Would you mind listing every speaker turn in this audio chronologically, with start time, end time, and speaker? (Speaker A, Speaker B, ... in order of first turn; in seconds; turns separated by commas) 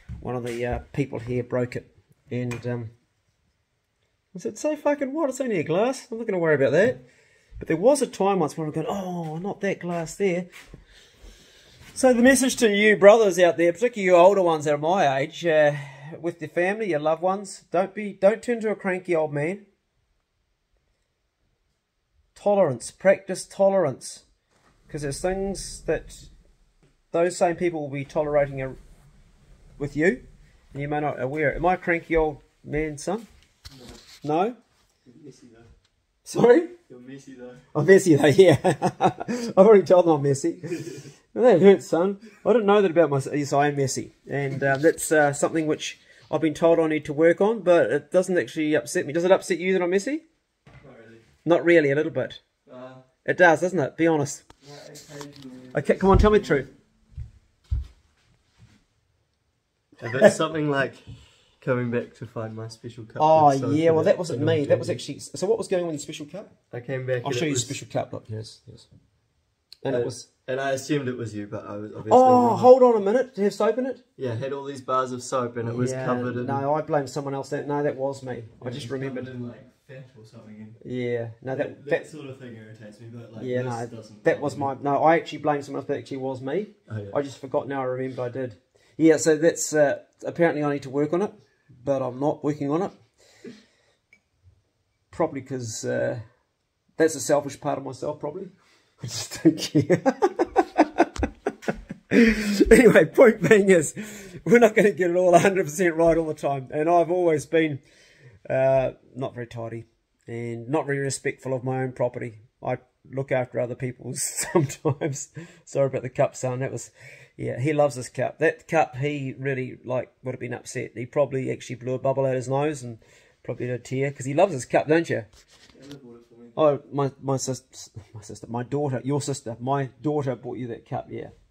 Speaker A: 0.2-2.9, Speaker A: 4.3-7.0, Speaker A: 7.6-10.5, Speaker A: 11.9-19.6, Speaker A: 22.3-24.2, Speaker A: 24.9-26.3, Speaker A: 27.1-28.8, Speaker A: 29.8-33.3, Speaker B: 33.7-34.0, Speaker A: 34.2-34.6, Speaker B: 35.0-35.7, Speaker A: 36.2-36.7, Speaker B: 36.9-37.6, Speaker A: 37.7-50.2, Speaker B: 50.8-51.2, Speaker A: 51.4-52.4, Speaker B: 52.7-53.0, Speaker A: 53.2-54.4, Speaker B: 54.6-56.7, Speaker A: 55.7-56.7, Speaker B: 60.0-65.0, Speaker A: 63.2-66.5, Speaker B: 66.7-68.4, Speaker A: 67.2-68.9, Speaker A: 69.8-70.2, Speaker B: 69.9-72.7, Speaker A: 72.1-74.0, Speaker B: 74.2-76.7, Speaker A: 75.7-79.3, Speaker B: 78.6-80.8, Speaker A: 80.8-82.0, Speaker B: 81.5-84.7, Speaker A: 83.3-93.0, Speaker B: 86.9-87.2, Speaker A: 95.1-96.2, Speaker A: 97.0-101.1, Speaker A: 102.1-107.8, Speaker A: 108.5-125.3, Speaker B: 125.7-126.6, Speaker A: 126.5-131.3